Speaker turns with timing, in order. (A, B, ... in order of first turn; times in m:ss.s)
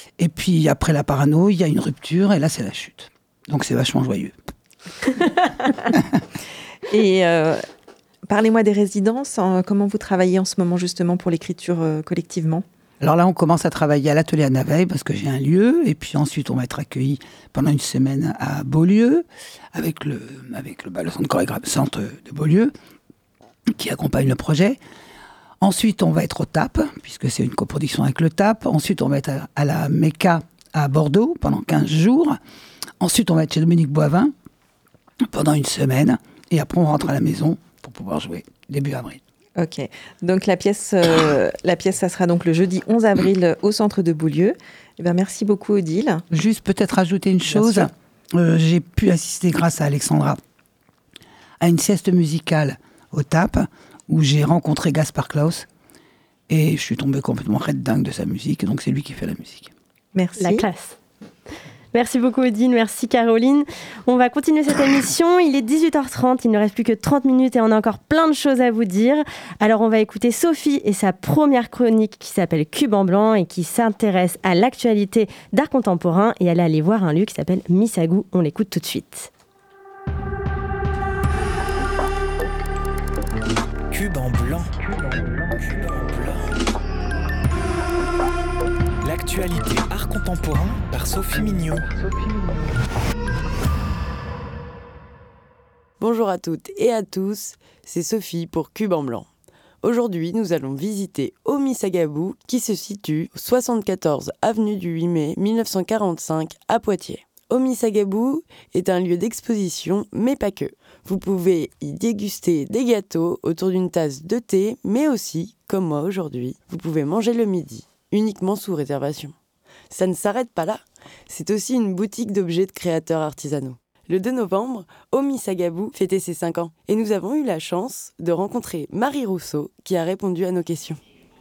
0:00.2-0:04.3 A
0:05.9-0:06.2 A
0:06.9-0:07.6 B
0:08.3-0:12.6 B
0:13.0-0:22.7 A
0:23.8-0:24.8 A
0:25.6-0:32.4 A
0:33.0-0:34.3 A
0:35.3-0:39.2 A
0:39.6-0:46.2 B
0:46.3-0:50.4 A
0:47.5-0:47.8 B
0:51.6-0:55.7 A
0:56.5-0:59.7 A
1:00.1-1:00.6 B
1:00.4-1:01.0 C
1:01.9-1:19.3 C
1:23.9-1:26.6 D
1:29.0-1:32.1 D
1:36.0-1:39.3 E
1:39.8-1:59.4 E
1:59.9-2:11.0 E